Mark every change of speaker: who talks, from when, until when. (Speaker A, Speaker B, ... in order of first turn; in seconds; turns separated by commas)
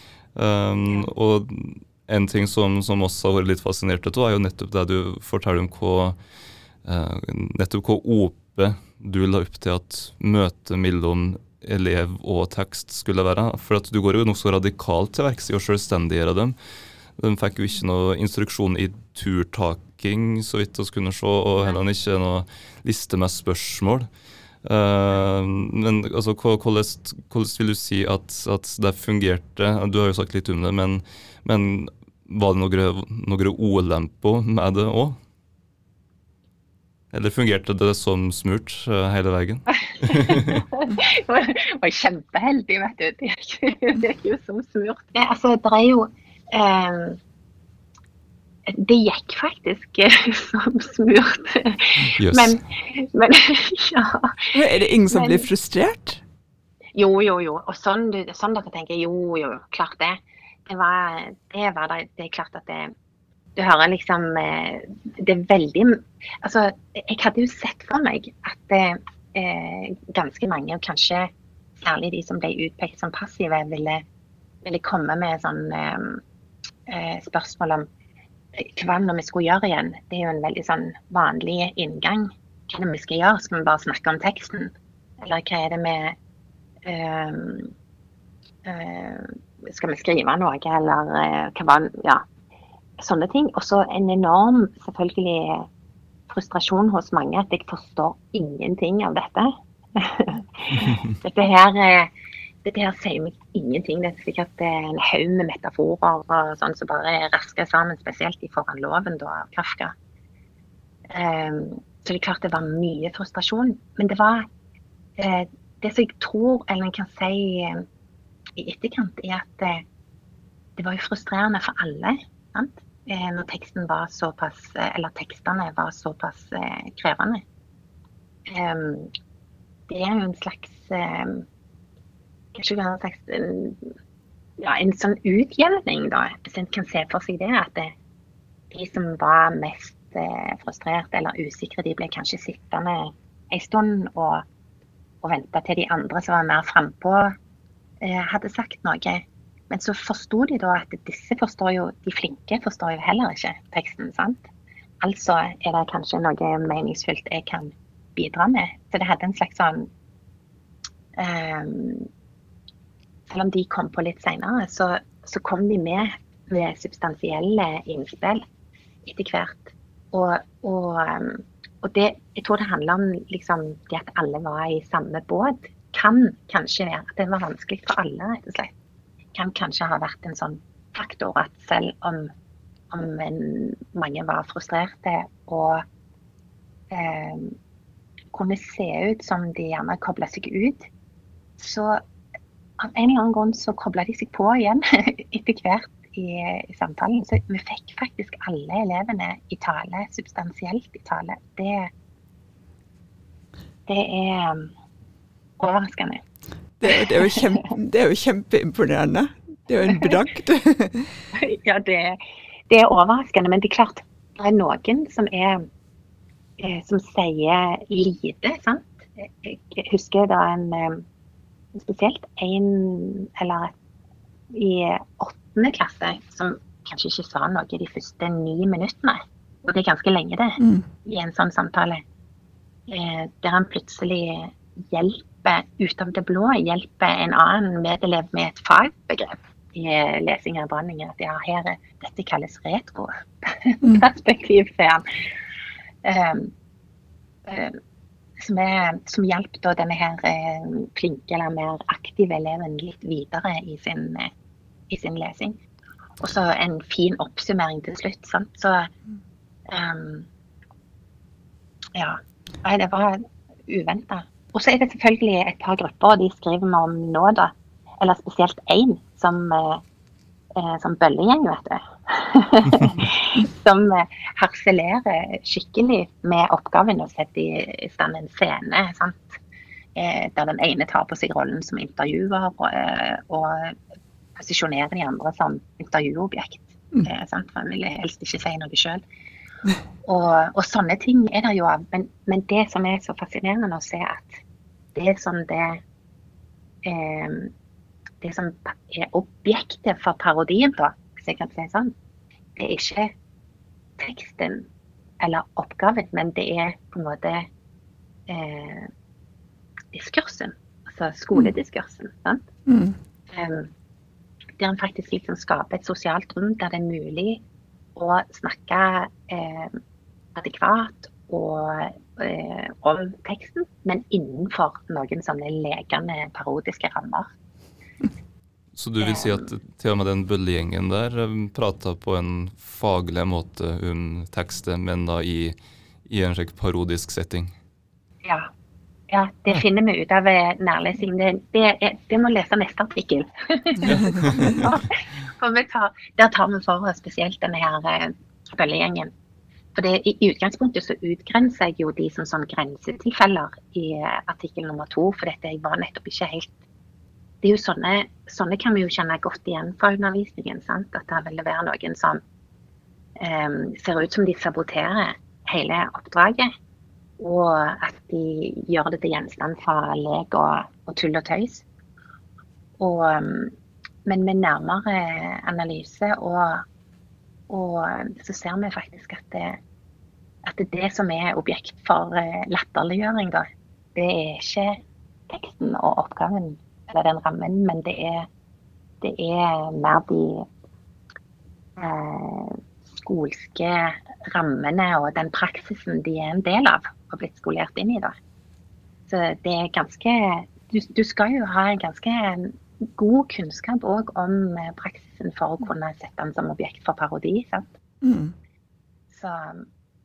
Speaker A: 0.3-6.2, Speaker A: 6.8-16.6, Speaker A: 17.2-24.1, Speaker A: 24.6-35.2, Speaker A: 37.1-40.6, Speaker B: 40.1-47.2, Speaker B: 48.7-54.6, Speaker A: 52.0-52.6, Speaker C: 54.5-56.2, Speaker B: 55.1-55.5, Speaker B: 57.0-62.9, Speaker B: 63.6-74.0, Speaker B: 74.6-76.2, Speaker B: 76.9-77.9, Speaker B: 78.6-86.2, Speaker B: 86.8-87.7, Speaker B: 88.7-92.2, Speaker B: 93.0-95.7, Speaker B: 96.3-102.1, Speaker B: 102.6-109.9, Speaker B: 111.1-114.5, Speaker B: 115.2-117.8, Speaker B: 118.6-119.8, Speaker B: 120.8-127.4, Speaker B: 128.5-129.1, Speaker B: 129.9-131.4, Speaker B: 132.5-133.9, Speaker B: 134.6-137.9, Speaker B: 138.7-144.4, Speaker B: 145.2-147.3, Speaker B: 148.0-154.5, Speaker B: 155.0-159.9, Speaker B: 161.2-162.1, Speaker B: 163.3-168.4, Speaker B: 169.1-178.7, Speaker B: 179.3-182.3, Speaker B: 182.9-185.8, Speaker B: 186.9-187.6, Speaker B: 188.3-190.9, Speaker B: 191.6-192.0, Speaker B: 192.8-201.9, Speaker B: 203.9-204.7, Speaker B: 205.6-206.2, Speaker C: 206.8-211.2, Speaker B: 206.9-207.4, Speaker B: 211.3-215.7, Speaker B: 216.6-221.1, Speaker B: 221.8-223.7, Speaker B: 224.5-232.0, Speaker C: 230.6-230.9, Speaker B: 232.9-245.1, Speaker B: 246.0-246.5, Speaker B: 247.5-247.8, Speaker B: 248.4-254.3, Speaker B: 254.9-255.6, Speaker B: 256.2-258.9, Speaker B: 259.7-260.3, Speaker B: 262.0-269.8, Speaker B: 270.6-279.3, Speaker B: 280.0-283.8, Speaker B: 284.4-289.0, Speaker B: 290.0-294.4, Speaker B: 294.9-295.8, Speaker B: 296.9-297.5, Speaker B: 298.2-301.9, Speaker B: 302.6-303.1, Speaker B: 304.0-304.7, Speaker B: 305.2-307.5, Speaker B: 308.3-308.9, Speaker B: 309.9-312.4, Speaker C: 312.7-313.0, Speaker B: 313.3-313.7, Speaker B: 314.6-317.4, Speaker B: 318.0-319.8, Speaker B: 320.4-327.3, Speaker A: 328.8-337.5, Speaker B: 329.0-329.5, Speaker B: 338.2-338.5, Speaker B: 339.1-349.1, Speaker A: 343.8-344.7, Speaker B: 349.8-356.5, Speaker B: 357.4-362.2, Speaker B: 363.2-366.5, Speaker B: 367.2-371.6, Speaker B: 372.8-373.5, Speaker B: 374.1-376.6, Speaker B: 377.5-379.6, Speaker B: 380.4-388.3, Speaker B: 389.0-390.5, Speaker B: 391.8-398.1, Speaker B: 399.1-407.7, Speaker C: 408.0-408.3, Speaker B: 409.1-409.7